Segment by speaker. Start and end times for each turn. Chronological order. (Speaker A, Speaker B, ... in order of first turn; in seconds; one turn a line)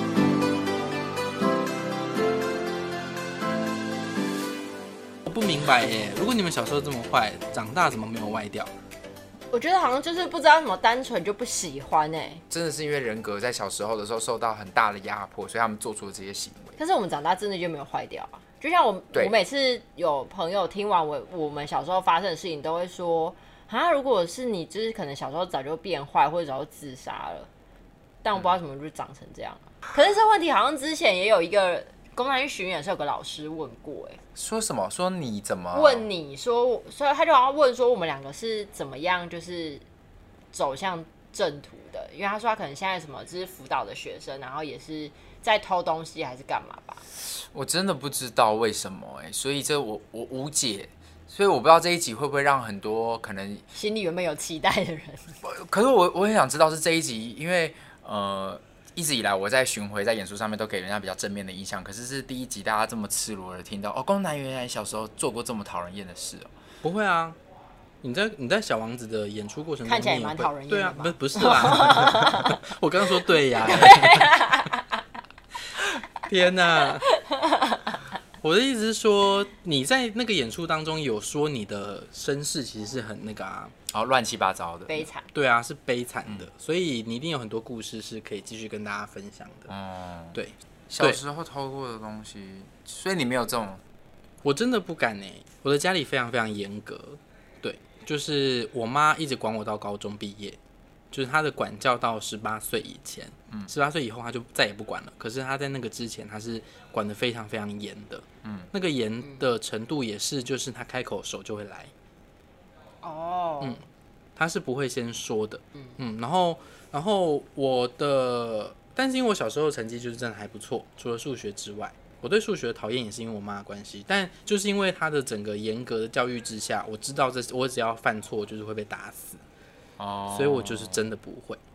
Speaker A: 5.2-8.7
Speaker B: 9.5-12.4
Speaker C: 12.5-16.8
Speaker B: 16.8-27.5
Speaker B: 28.2-34.2
Speaker C: 34.4-36.1
Speaker B: 35.7-39.8
Speaker B: 40.5-47.0
Speaker C: 47.5-53.6
Speaker B: 53.7-55.3
Speaker C: 55.4-66.5
Speaker A: 66.8-67.4
Speaker A: 68.0-74.4
Speaker B: 69.8-72.6
Speaker B: 73.6-74.8
Speaker A: 76.2-77.0
Speaker B: 77.4-77.9
Speaker A: 78.4-83.7
Speaker C: 83.9-85.1
Speaker B: 84.9-85.3
Speaker A: 85.3-89.7
Speaker C: 89.7-90.4
Speaker A: 90.3-91.2
Speaker C: 90.9-93.8
Speaker A: 94.4-100.6
Speaker A: 101.1-111.9
Speaker C: 108.4-108.7
Speaker B: 113.0-113.8
Speaker A: 114.3-129.4
Speaker C: 130.0-131.0
Speaker A: 130.3-131.6